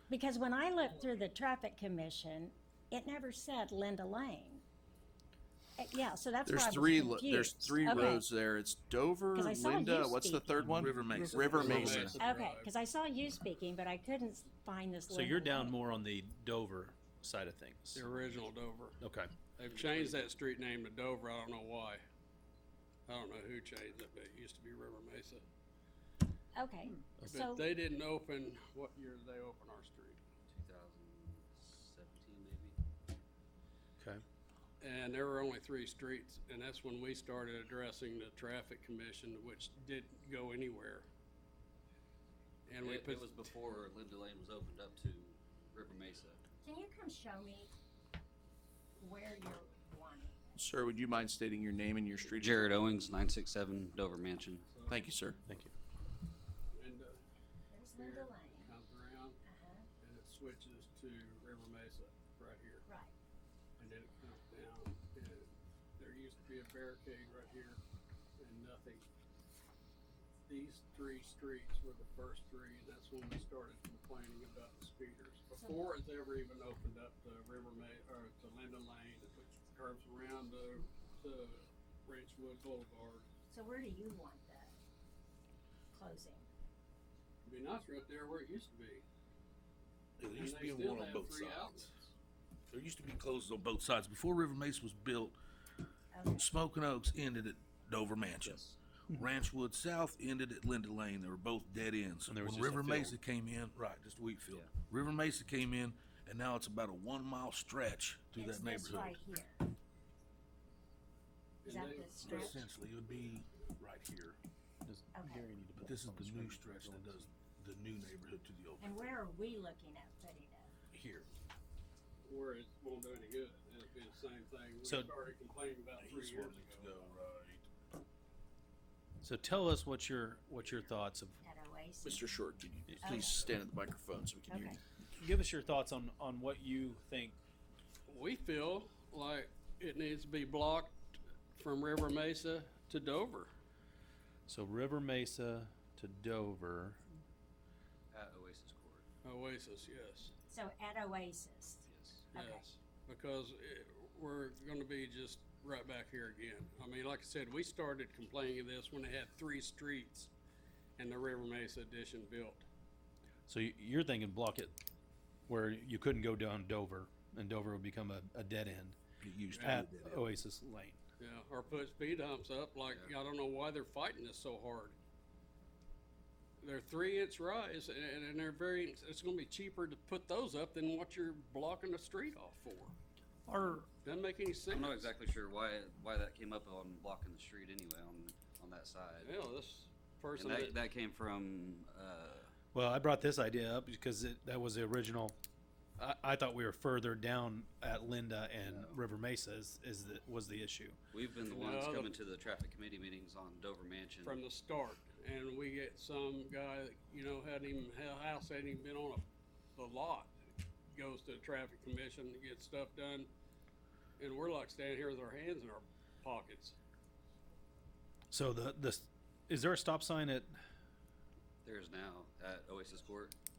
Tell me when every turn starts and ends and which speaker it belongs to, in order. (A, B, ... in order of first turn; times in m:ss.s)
0:00.1-0:04.6 A
0:05.8-0:08.2 A
0:06.4-0:12.2 B
0:09.3-0:10.5 A
0:10.6-0:12.2 C
0:11.1-0:12.7 D
0:11.6-0:11.8 E
0:12.2-0:15.8 A
0:15.1-0:18.1 E
0:17.9-0:19.0 D
0:19.0-0:19.3 E
0:19.6-0:22.0 D
0:19.7-0:20.3 F
0:23.1-0:25.4 D
0:26.5-0:27.7 A
0:27.2-0:30.2 D
0:30.5-0:32.8 F
0:34.8-0:41.1 D
0:42.7-0:43.3 D
0:42.8-0:46.4 F
0:46.6-0:47.7 A
0:49.0-0:50.4 A
0:50.6-0:52.7 B
0:52.3-0:54.7 F
0:54.7-0:55.0 D
0:54.9-0:55.4 B
0:55.5-0:55.7 E
0:56.7-0:57.2 D
0:57.7-0:58.8 A
0:57.9-0:59.4 D
0:59.4-0:59.9 A
1:00.0-1:02.9 D
1:02.8-1:03.1 A
1:03.8-1:07.8 D
1:08.4-1:09.0 D
1:10.5-1:23.3 D
1:15.6-1:15.8 A
1:23.5-1:24.8 A
1:25.9-1:26.5 A
1:27.4-1:29.0 D
1:30.2-1:31.9 C
1:30.3-1:32.0 D
1:32.7-1:35.4 C
1:36.1-1:36.5 A
1:36.3-1:49.2 C
1:38.4-1:38.8 F
1:42.3-1:43.2 E
1:48.4-1:49.7 A
1:51.6-1:52.6 D
1:51.6-1:52.6 A
1:52.2-1:54.4 C
1:54.8-1:57.3 E
1:55.1-1:55.5 A
1:55.8-1:59.1 C
1:58.8-2:00.7 A
2:00.9-2:01.3 C
2:02.2-2:07.1 D
2:04.9-2:05.1 E
2:06.0-2:07.7 C
2:09.2-2:11.4 E
2:11.4-2:12.2 A
2:12.0-2:14.8 B
2:12.9-2:13.2 E
2:13.0-2:13.4 A
2:14.5-2:14.8 A
2:15.2-2:17.4 E
2:18.1-2:21.0 D
2:21.6-2:23.5 D
2:24.5-2:27.0 E
2:28.1-2:29.1 F
2:29.2-2:30.3 D
2:30.5-2:32.7 A
2:31.9-2:32.3 F
2:32.4-2:40.3 D
2:41.0-2:42.6 D
2:43.5-2:44.8 E
2:45.5-2:49.0 E
2:49.2-2:50.2 C
2:49.5-2:49.8 D
2:49.6-2:51.0 E
2:51.2-2:55.0 D
2:52.9-2:53.1 F
2:56.6-3:03.0 D
3:03.5-3:03.9 E
3:04.0-3:05.1 D
3:04.7-3:09.4 F
3:09.2-3:10.8 D
3:10.4-3:12.5 F
3:12.7-3:15.4 E
3:16.0-3:21.0 E
3:18.6-3:19.0 F
3:21.1-3:24.4 F
3:21.4-3:22.1 D
3:24.2-3:29.2 D
3:29.8-3:30.3 D
3:30.9-3:33.3 D
3:34.2-3:36.8 D
3:38.3-3:40.6 E
3:41.6-3:43.3 F